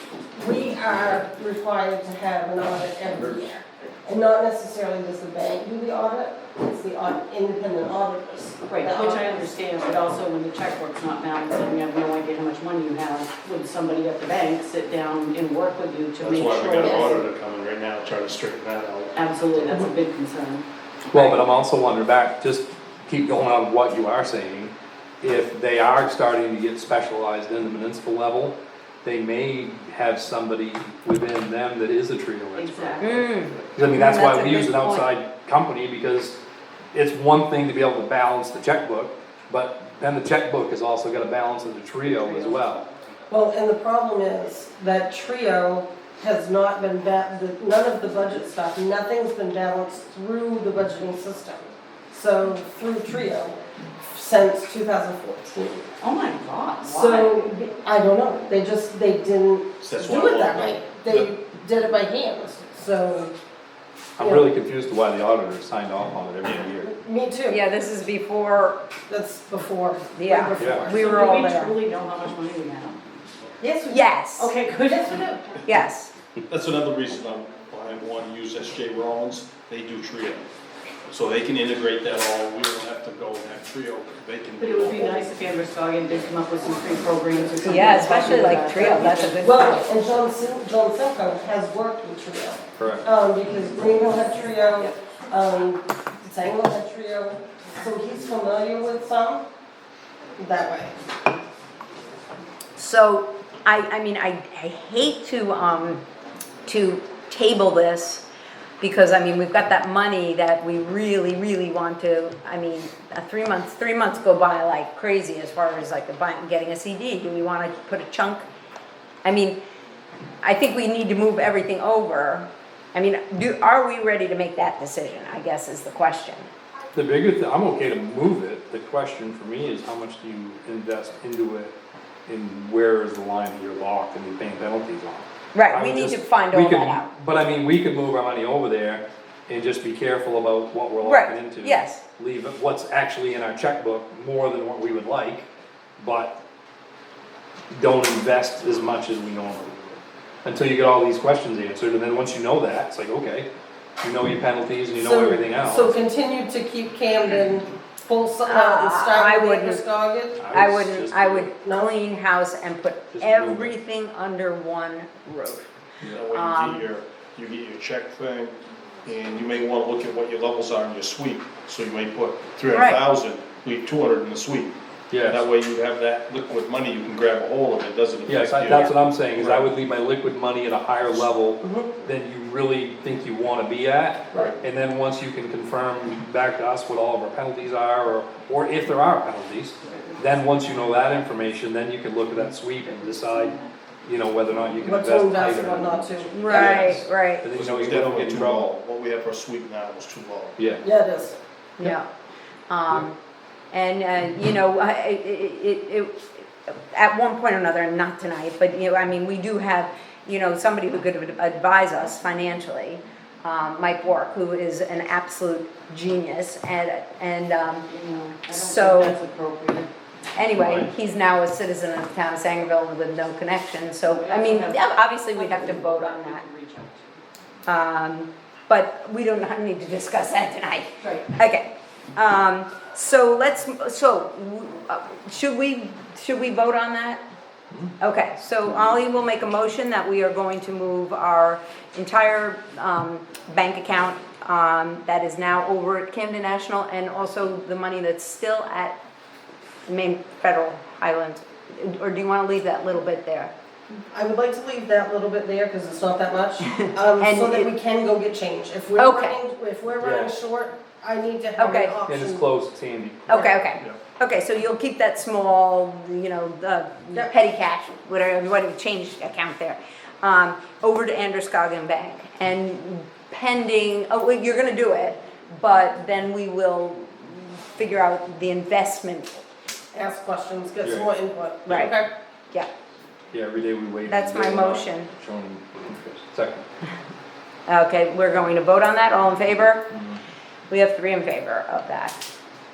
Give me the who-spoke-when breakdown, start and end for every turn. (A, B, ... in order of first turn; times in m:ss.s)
0:00.3-0:09.4 A
0:08.6-0:17.2 B
0:16.2-0:19.8 C
0:19.1-0:21.4 B
0:21.1-0:36.4 D
0:32.5-0:33.3 B
0:33.0-0:35.1 E
0:36.9-0:42.8 D
0:42.0-0:43.1 B
0:43.3-0:53.6 A
0:54.1-0:55.8 A
0:56.0-0:57.5 B
0:56.8-1:03.3 A
0:59.8-1:01.3 C
1:04.2-1:06.9 D
1:04.2-1:04.5 A
1:06.8-1:07.6 A
1:07.5-1:08.8 E
1:09.1-1:11.7 A
1:10.1-1:11.7 E
1:10.6-1:11.0 D
1:10.8-1:13.0 B
1:13.6-1:14.0 A
1:13.9-1:14.6 E
1:14.4-1:15.6 B
1:14.9-1:15.5 A
1:15.6-1:16.1 E
1:16.5-1:20.4 C
1:21.0-1:25.1 C
1:24.6-1:29.4 B
1:27.6-1:29.9 E
1:28.7-1:39.5 A
1:32.8-1:33.0 D
1:40.4-1:40.9 A
1:42.8-1:46.0 E
1:46.6-1:48.2 E
1:48.8-1:58.4 E
1:59.2-1:59.6 E
2:00.4-2:06.5 E
2:06.9-2:11.7 D
2:12.3-2:26.4 D
2:15.5-2:17.1 E
2:21.0-2:22.0 E
2:27.7-2:33.5 D
2:34.0-2:35.9 D
2:35.0-2:40.4 A
2:38.4-2:39.8 E
2:40.4-2:41.5 D
2:40.5-2:45.7 E
2:41.6-2:41.9 A
2:43.1-2:43.7 D
2:46.1-2:54.8 C
2:46.3-2:46.8 E
2:52.7-2:53.0 E
2:55.1-2:55.4 D
2:55.3-2:59.7 C
2:58.3-3:18.7 D
3:09.8-3:10.2 B
3:13.0-3:13.7 B
3:14.8-3:16.8 A
3:16.3-3:17.5 E
3:17.5-3:20.6 C
3:20.6-3:20.8 D
3:20.8-3:21.4 A
3:21.8-3:22.1 E
3:22.7-3:23.2 E
3:23.7-3:37.9 E
3:37.9-3:39.9 B
3:38.5-3:39.2 E
3:40.3-3:46.4 E
3:40.5-3:40.9 D
3:44.1-3:47.2 B
3:47.6-3:57.2 E
3:51.0-3:51.3 B
3:58.0-4:09.0 E
4:09.9-4:13.5 E
4:14.1-4:22.4 A
4:16.6-4:17.7 E
4:19.0-4:19.4 E
4:20.0-4:20.3 D
4:21.6-4:22.0 E
4:22.0-4:23.5 D
4:23.3-4:39.4 E
4:39.9-4:42.1 A
4:40.8-4:41.1 D
4:41.6-4:42.0 E
4:43.3-4:46.6 D
4:44.1-4:45.1 E
4:47.7-4:49.9 E
4:49.9-4:50.2 D
4:50.7-4:52.2 E